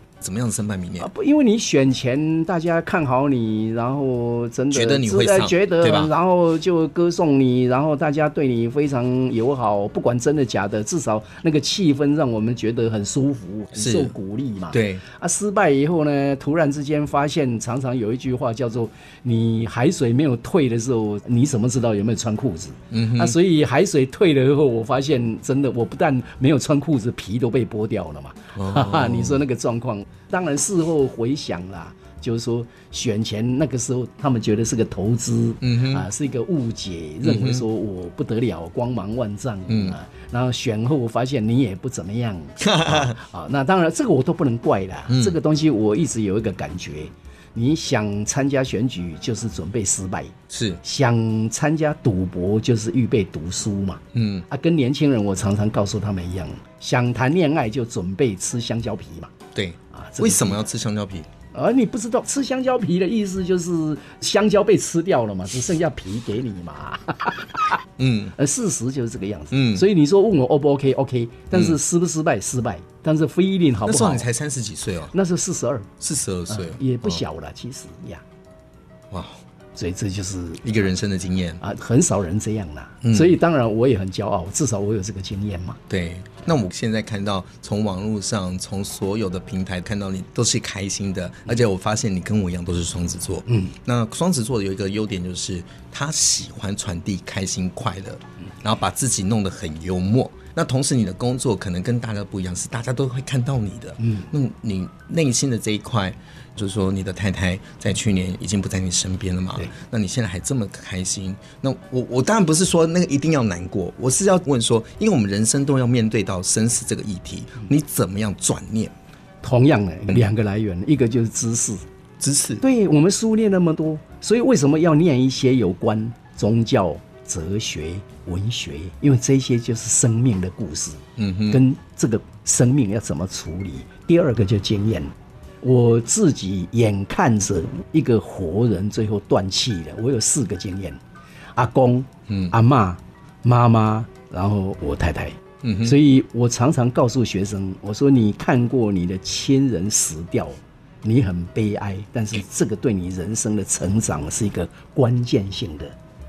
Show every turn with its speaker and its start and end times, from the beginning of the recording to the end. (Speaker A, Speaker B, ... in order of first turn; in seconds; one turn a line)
Speaker A: 0.2-1.1
Speaker B: 1.0-59.3
Speaker A: 4.7-6.1
Speaker A: 13.8-14.1
Speaker A: 14.7-15.0
Speaker A: 22.9-23.4
Speaker A: 28.5-29.4
Speaker A: 35.6-36.0
Speaker A: 37.2-37.6
Speaker A: 39.7-40.0
Speaker A: 42.6-43.2
Speaker A: 45.1-45.4
Speaker A: 50.5-50.8
Speaker A: 54.1-54.4
Speaker A: 59.5-61.3
Speaker B: 59.9-60.6
Speaker B: 61.5-67.8
Speaker A: 68.0-68.3
Speaker B: 68.3-74.3
Speaker A: 69.5-69.8
Speaker A: 73.8-75.1
Speaker B: 75.1-75.9
Speaker A: 76.0-77.2
Speaker B: 76.5-78.2
Speaker A: 79.1-79.4
Speaker B: 79.8-80.7
Speaker A: 80.6-81.6
Speaker B: 81.6-85.8
Speaker A: 83.0-83.4
Speaker A: 85.9-118.9
Speaker B: 93.5-93.7
Speaker B: 104.0-104.3
Speaker B: 119.4-121.8
Speaker A: 122.2-122.6
Speaker B: 122.6-141.0
Speaker A: 131.2-131.6
Speaker B: 141.6-155.9
Speaker A: 142.3-142.5
Speaker A: 145.6-146.0